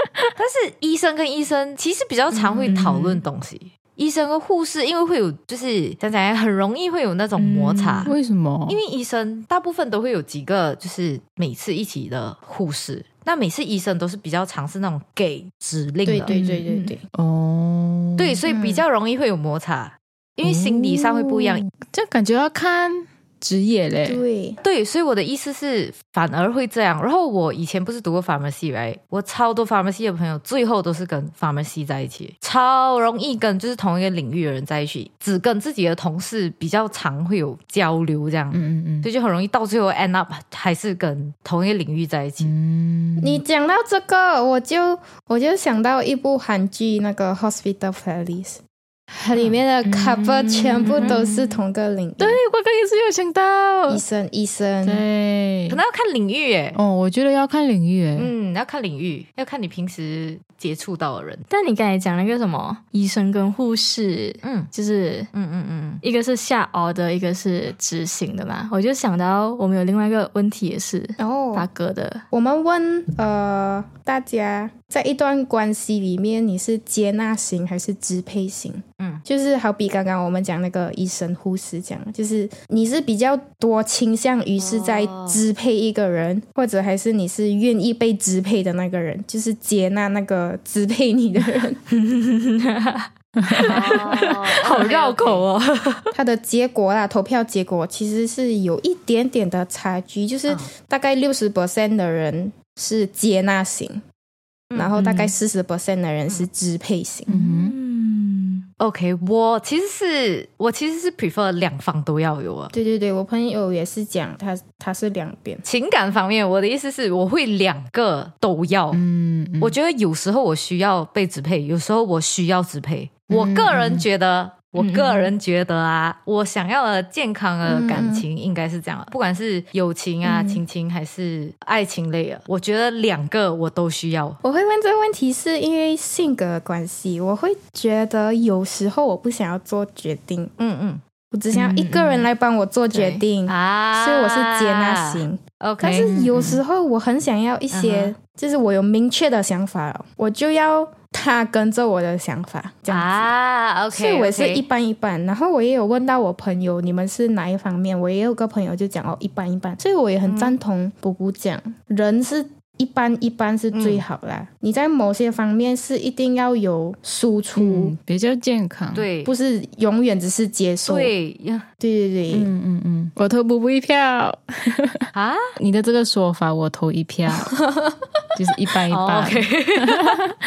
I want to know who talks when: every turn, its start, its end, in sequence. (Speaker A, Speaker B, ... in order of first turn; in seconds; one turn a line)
Speaker A: 0.4-8.1
Speaker B: 2.3-2.7
Speaker C: 2.6-3.2
Speaker C: 7.4-8.1
Speaker D: 8.1-8.8
Speaker A: 8.7-16.3
Speaker B: 16.1-17.0
Speaker D: 16.3-18.4
Speaker C: 16.7-16.9
Speaker A: 18.2-21.6
Speaker B: 18.5-18.8
Speaker D: 20.4-24.2
Speaker B: 24.1-24.6
Speaker A: 24.6-42.5
Speaker D: 38.5-39.1
Speaker D: 42.4-43.4
Speaker B: 43.2-52.4
Speaker D: 49.8-51.5
Speaker D: 52.2-54.0
Speaker B: 53.9-55.0
Speaker D: 54.8-55.8
Speaker A: 55.7-56.8
Speaker D: 56.7-58.3
Speaker A: 58.1-61.5
Speaker C: 61.5-65.3
Speaker A: 64.4-64.7
Speaker A: 65.3-66.0
Speaker C: 66.0-72.2
Speaker B: 71.2-71.7
Speaker B: 72.3-91.8
Speaker A: 84.6-85.4
Speaker C: 91.9-96.1
Speaker D: 93.4-93.7
Speaker A: 93.7-95.4
Speaker B: 96.1-104.0
Speaker A: 104.7-105.0
Speaker B: 104.7-107.3
Speaker C: 105.0-105.2
Speaker D: 107.3-107.8
Speaker C: 107.3-108.6
Speaker A: 108.8-112.7
Speaker B: 112.7-115.6
Speaker A: 115.6-119.0
Speaker D: 118.9-119.8
Speaker A: 119.6-134.4
Speaker D: 123.3-124.0
Speaker C: 124.8-125.3
Speaker B: 127.7-128.2
Speaker B: 130.2-130.6
Speaker B: 134.4-140.5
Speaker A: 140.6-141.0
Speaker B: 141.3-153.3
Speaker C: 141.5-142.3
Speaker A: 142.9-146.0
Speaker D: 145.8-146.6
Speaker A: 147.7-148.1
Speaker A: 152.9-154.6
Speaker B: 153.9-167.9
Speaker A: 160.2-160.6
Speaker A: 163.7-164.0
Speaker D: 167.6-169.1
Speaker A: 168.9-169.3
Speaker B: 169.2-171.1
Speaker A: 170.8-171.6
Speaker B: 171.8-172.5
Speaker D: 172.3-175.0
Speaker A: 175.1-175.4
Speaker D: 175.6-177.5
Speaker B: 177.5-177.9
Speaker D: 178.3-180.3
Speaker A: 178.9-180.2